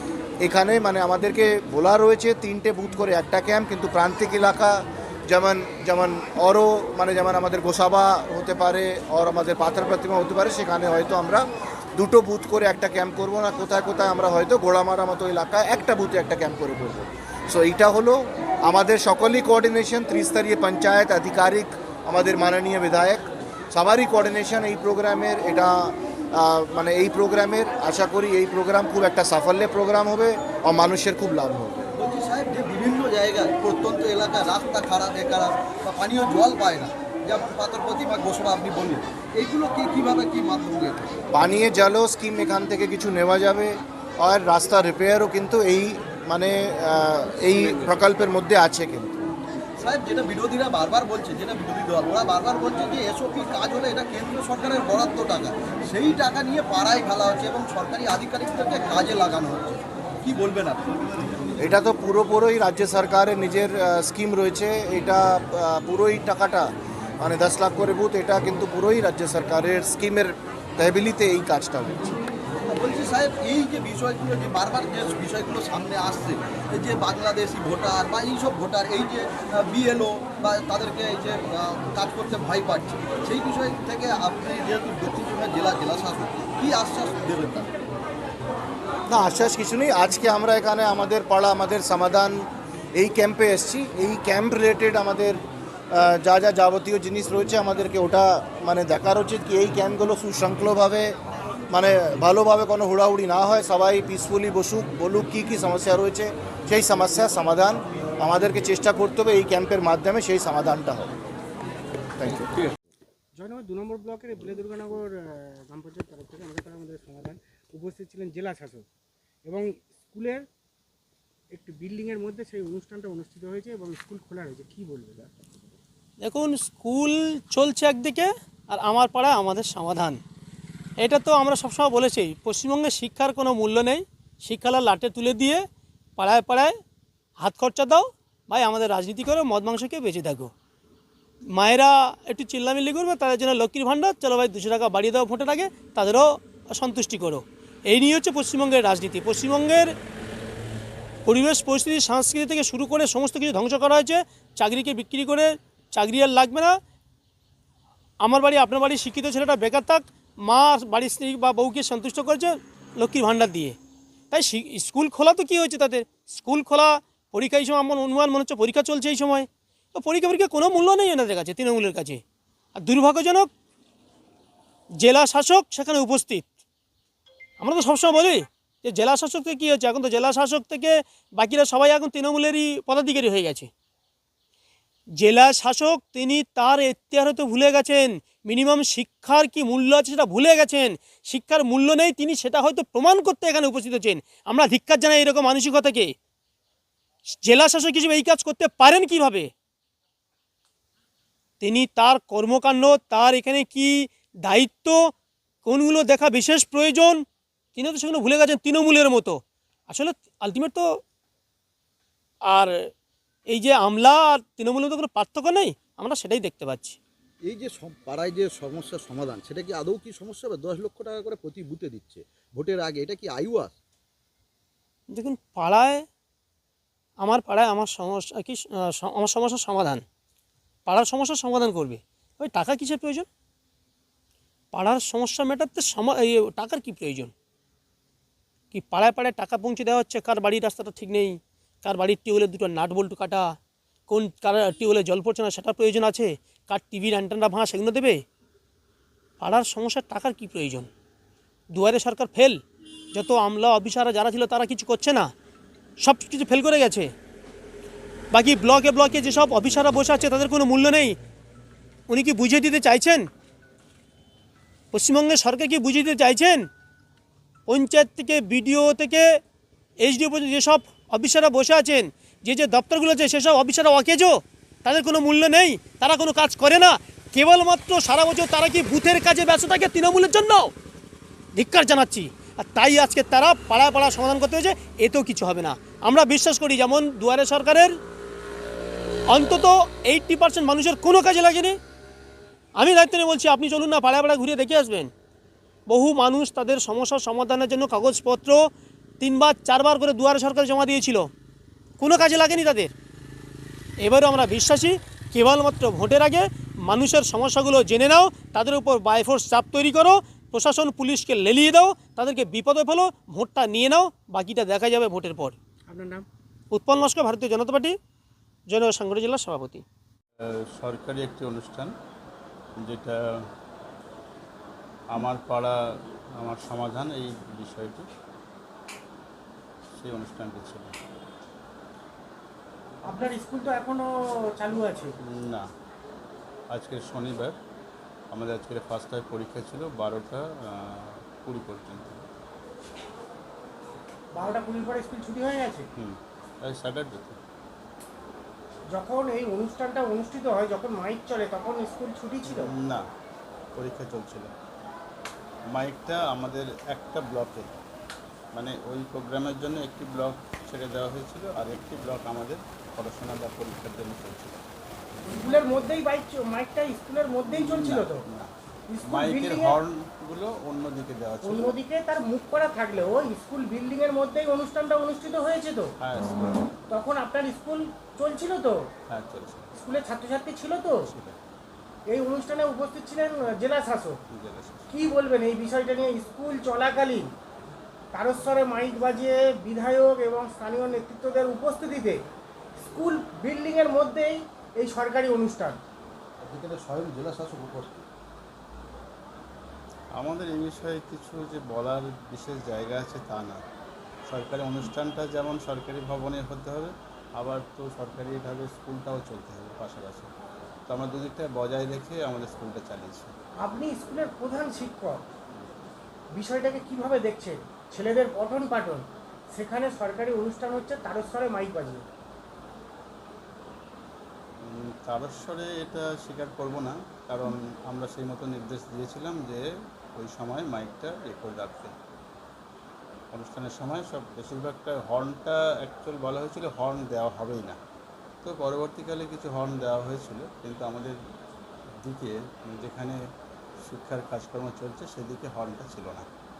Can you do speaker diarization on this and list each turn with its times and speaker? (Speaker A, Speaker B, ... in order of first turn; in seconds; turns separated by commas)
Speaker A: 0.4-11.4, Speaker A: 12.0-32.0, Speaker B: 32.0-41.3, Speaker A: 41.3-49.3, Speaker B: 47.6-47.9, Speaker B: 49.8-61.0, Speaker A: 61.6-66.7, Speaker A: 67.2-72.1, Speaker B: 72.7-87.7, Speaker A: 89.1-95.4, Speaker A: 95.9-101.2, Speaker A: 101.7-111.1, Speaker A: 112.2-112.5, Speaker C: 113.4-115.1, Speaker C: 115.7-118.8, Speaker C: 119.5-120.5, Speaker C: 121.5-125.3, Speaker D: 126.2-130.2, Speaker D: 131.0-135.6, Speaker D: 136.2-136.7, Speaker D: 137.4-140.5, Speaker D: 141.5-149.9, Speaker D: 151.3-156.8, Speaker D: 158.2-163.8, Speaker D: 164.3-172.2, Speaker D: 172.8-173.5, Speaker D: 175.0-176.5, Speaker D: 177.6-183.7, Speaker D: 185.2-196.1, Speaker D: 197.4-199.5, Speaker D: 201.6-205.1, Speaker D: 205.7-207.2, Speaker D: 207.8-210.9, Speaker D: 212.5-212.9, Speaker D: 213.5-217.0, Speaker B: 217.5-223.8, Speaker D: 225.1-226.1, Speaker D: 227.2-230.0, Speaker D: 230.9-233.3, Speaker D: 234.7-237.3, Speaker D: 238.7-243.5, Speaker D: 244.1-248.2, Speaker D: 249.4-250.9, Speaker D: 251.7-252.6, Speaker D: 253.1-255.3, Speaker D: 256.0-257.1, Speaker D: 258.3-261.2, Speaker D: 262.1-263.3, Speaker D: 264.9-266.6, Speaker D: 267.7-269.3, Speaker D: 270.0-280.7, Speaker D: 281.6-287.9, Speaker D: 289.3-291.8, Speaker D: 292.8-295.1, Speaker D: 295.9-298.6, Speaker D: 299.2-301.3, Speaker D: 302.0-302.9, Speaker D: 304.0-315.6, Speaker C: 315.9-316.3, Speaker D: 316.7-317.9, Speaker D: 318.7-319.8, Speaker E: 320.4-321.9, Speaker E: 322.8-323.5, Speaker E: 325.1-328.1, Speaker E: 329.9-331.0, Speaker C: 333.1-334.1, Speaker C: 334.6-335.2, Speaker E: 335.2-335.7, Speaker E: 336.7-337.6, Speaker E: 338.3-342.3, Speaker C: 344.4-345.9, Speaker E: 346.0-347.4, Speaker C: 348.9-352.7, Speaker E: 352.4-353.1, Speaker E: 353.8-354.5, Speaker E: 355.7-357.7, Speaker E: 358.5-364.6, Speaker C: 365.3-368.2, Speaker E: 367.5-368.5, Speaker C: 368.9-369.8, Speaker E: 369.1-371.8, Speaker C: 371.4-375.9, Speaker E: 376.0-376.7, Speaker C: 376.9-378.8, Speaker E: 379.1-379.7, Speaker C: 379.8-381.1, Speaker E: 380.9-381.4, Speaker C: 382.1-384.2, Speaker E: 384.3-384.9, Speaker C: 384.9-387.3, Speaker C: 388.1-392.2, Speaker C: 392.8-395.8, Speaker B: 396.4-398.1, Speaker E: 400.1-403.6, Speaker E: 404.3-410.3, Speaker E: 410.9-413.3, Speaker C: 413.6-415.2, Speaker C: 416.4-422.0, Speaker E: 424.6-429.6, Speaker E: 430.2-431.9, Speaker E: 433.3-437.8, Speaker E: 438.4-441.2, Speaker E: 442.0-443.2, Speaker E: 443.8-446.3